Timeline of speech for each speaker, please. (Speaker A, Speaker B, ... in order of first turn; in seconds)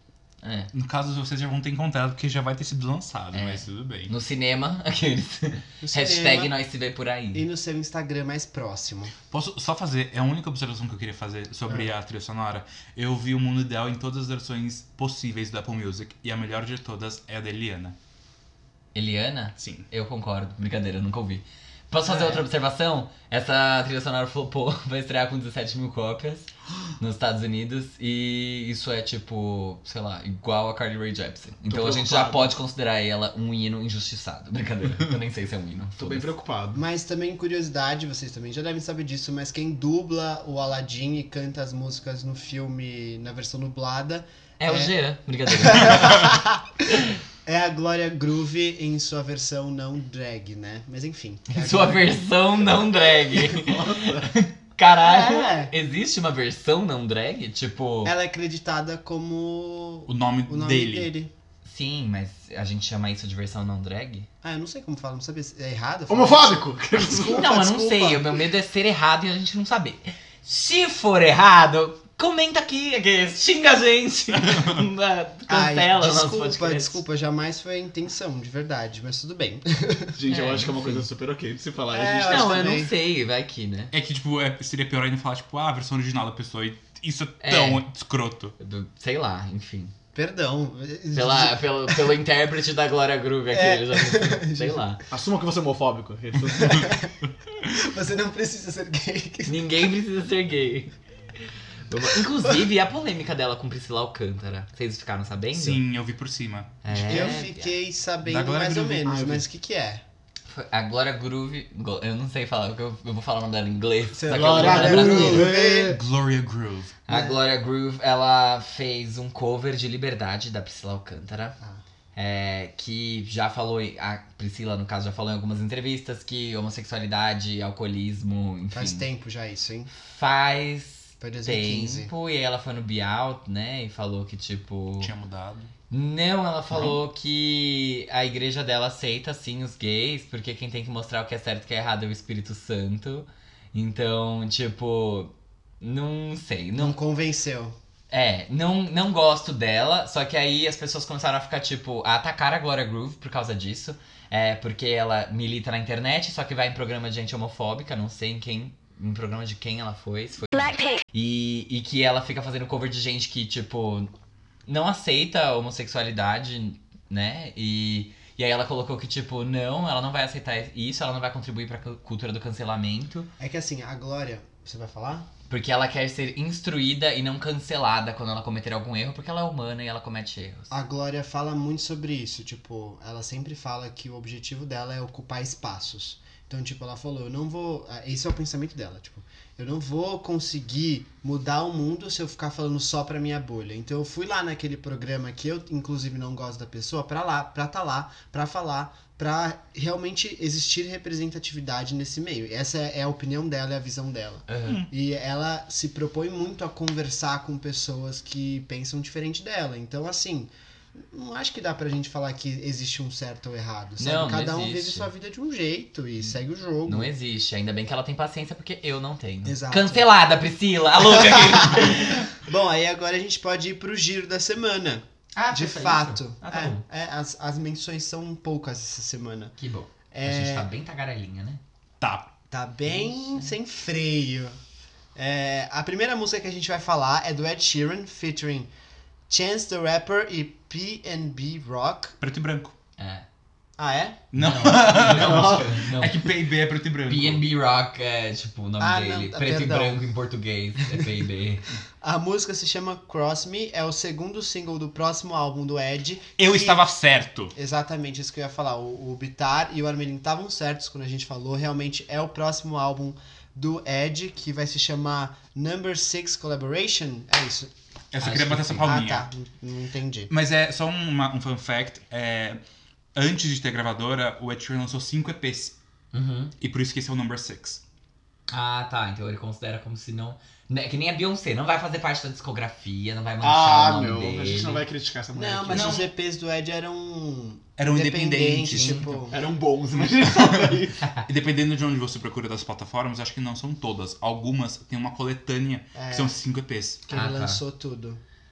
Speaker A: 0.4-0.7, 3.3-7.4, 18.9-26.5, 27.0-36.3, 44.6-46.3, 51.5-58.1, 61.6-64.3, 67.2-77.0, 80.3-81.0, 82.3-83.9, 87.4-87.8, 88.6-89.9, 91.1-95.0, 99.5-100.9, 101.9-105.8, 106.8-107.7, 110.5-115.5, 117.0-121.6, 122.1-129.1, 129.9-135.1, 135.9-147.0, 148.1-164.1, 164.7-173.3, 175.5-180.7, 204.5-204.8, 214.0-215.1, 216.8-222.3, 225.3-226.8, 229.6-231.6, 243.0-243.2, 244.3-246.3, 247.1-251.7, 268.2-268.9, 276.1-276.5, 278.5-284.8, 288.7-289.1, 297.1-297.6
Speaker B: 0.7-4.1, 9.3-17.9, 19.6-19.9, 60.1-61.1, 74.4-74.8, 83.9-88.5, 105.5-107.4, 108.2-109.2, 115.8-116.9, 135.0-135.7, 232.0-232.3, 242.2-242.7, 244.3-247.4, 256.4-257.5, 268.1-269.3, 270.3-272.6, 273.1-275.8, 276.6-277.8, 285.7-286.1, 287.8-289.2, 290.2-297.0
Speaker C: 5.8-6.5, 7.3-9.1, 36.7-44.9, 45.5-46.6, 47.4-52.2, 55.0-55.7, 58.0-61.3, 64.4-68.4, 75.5-80.1, 81.9-82.9, 90.1-92.1, 93.5-94.8, 96.5-97.1, 97.7-99.7, 107.1-110.0, 114.1-116.0, 117.1-117.4, 128.7-129.9, 131.2-132.1, 146.8-147.7, 173.4-175.3, 180.7-217.1, 219.4-220.1, 221.3-229.5, 230.1-230.7, 232.5-234.6, 235.1-238.7, 239.3-242.2, 243.8-244.2, 248.8-250.0, 252.0-256.8, 257.5-267.7, 268.8-270.3, 285.4-289.4, 295.9-296.4, 297.1-298.2
Speaker D: 31.7-32.5, 36.0-36.8, 53.3-54.3, 66.1-67.5, 80.2-82.7, 95.1-96.9, 109.0-109.4, 114.3-116.0, 244.9-245.8, 283.4-285.9, 289.3-291.0